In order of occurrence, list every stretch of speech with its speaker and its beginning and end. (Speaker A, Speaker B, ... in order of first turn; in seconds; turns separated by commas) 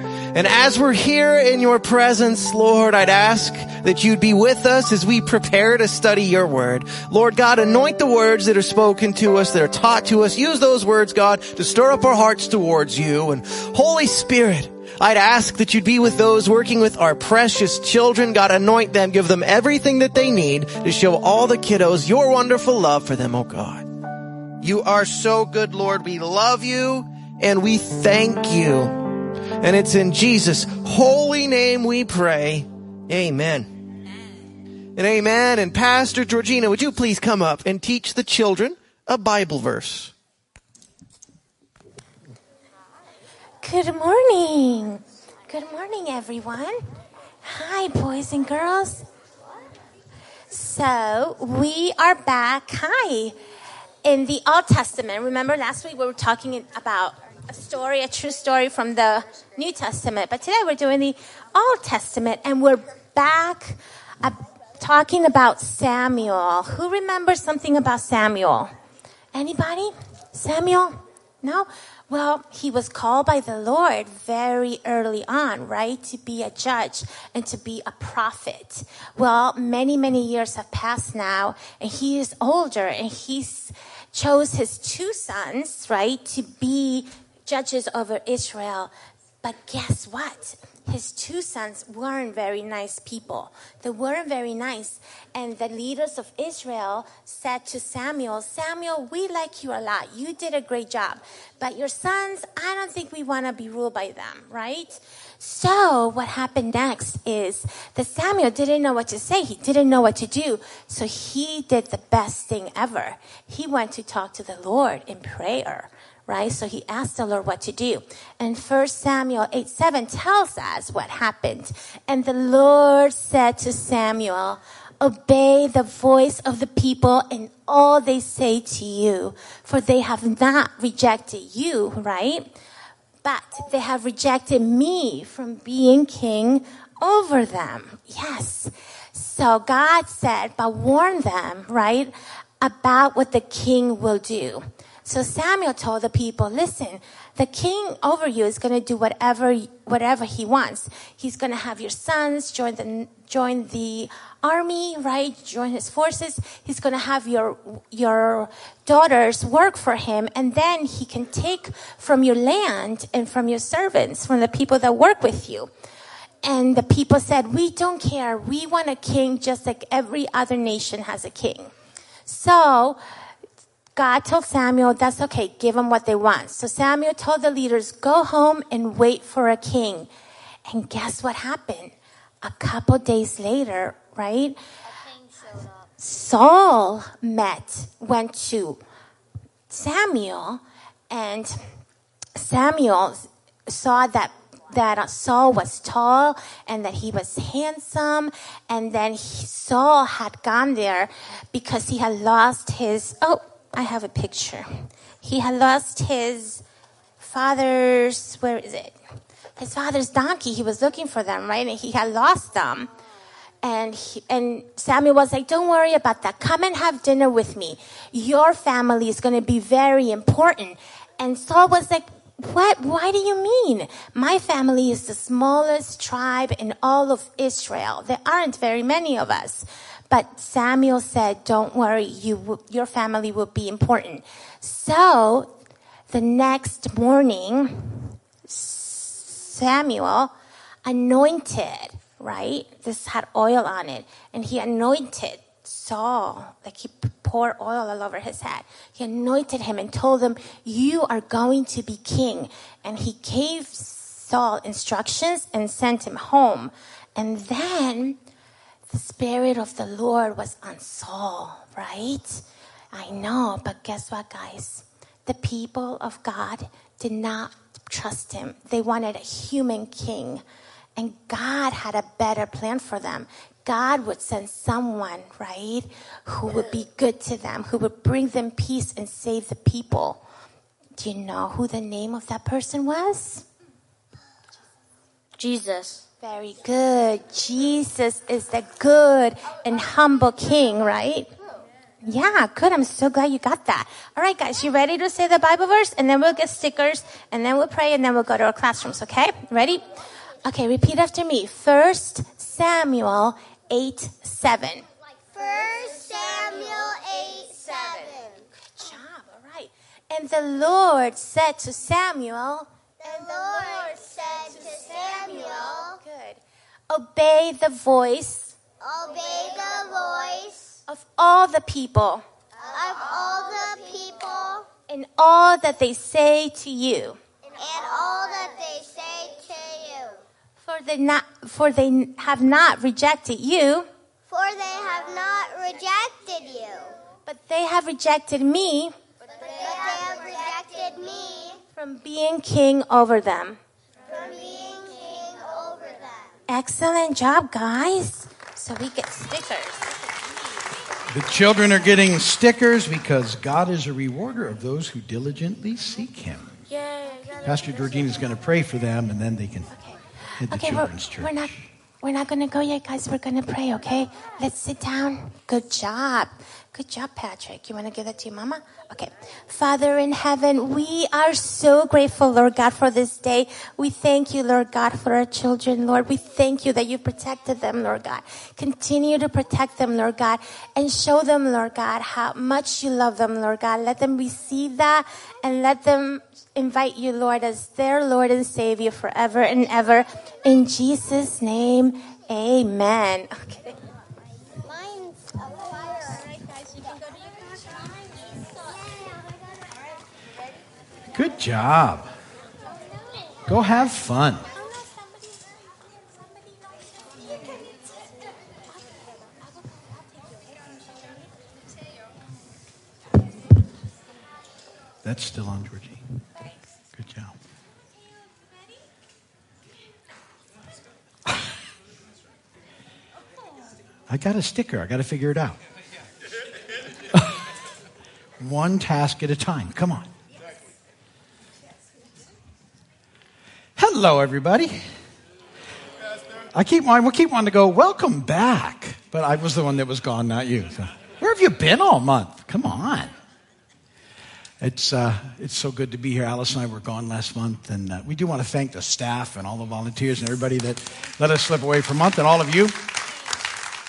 Speaker A: 0.3-23.9, Speaker A: 24.6-29.0, Speaker A: 29.6-33.7, Speaker A: 35.0-40.1, Speaker B: 43.6-46.8, Speaker B: 47.4-49.1, Speaker B: 50.5-53.4, Speaker B: 54.0-68.7, Speaker B: 69.3-132.5, Speaker B: 133.2-165.7, Speaker B: 166.4-171.7, Speaker B: 172.2-173.0, Speaker B: 173.9-180.1, Speaker B: 180.7-184.6, Speaker B: 186.0-188.8, Speaker B: 189.7-191.7, Speaker B: 192.3-206.6, Speaker B: 207.2-209.0, Speaker B: 209.6-212.9, Speaker B: 213.6-235.5, Speaker B: 236.1-240.3, Speaker B: 240.8-258.2, Speaker B: 258.9-270.4, Speaker B: 270.9-280.2, Speaker B: 281.0-283.4, Speaker B: 285.4-291.3, Speaker B: 292.0-299.9, Speaker B: 300.4-304.9, Speaker C: 305.3-308.4, Speaker B: 308.8-312.7, Speaker C: 313.0-316.0, Speaker B: 315.2-318.6, Speaker C: 318.8-320.7, Speaker B: 320.9-322.2, Speaker C: 322.6-324.7, Speaker B: 324.9-327.2, Speaker C: 327.6-330.2, Speaker B: 330.6-333.9, Speaker C: 334.3-337.0, Speaker B: 337.2-338.9, Speaker C: 339.4-341.6, Speaker B: 341.7-343.6, Speaker C: 344.0-346.3, Speaker B: 346.5-350.1, Speaker D: 351.1-356.6, Speaker B: 356.7-357.5, Speaker D: 357.4-359.7, Speaker D: 360.4-361.6, Speaker B: 360.5-393.7, Speaker C: 394.6-396.2, Speaker D: 401.1-402.1, Speaker D: 403.5-404.5, Speaker D: 415.0-416.0, Speaker D: 416.9-417.4, Speaker D: 424.1-425.6, Speaker D: 427.1-427.4, Speaker D: 428.4-430.1, Speaker D: 433.8-434.8, Speaker D: 436.5-443.1, Speaker D: 444.6-452.9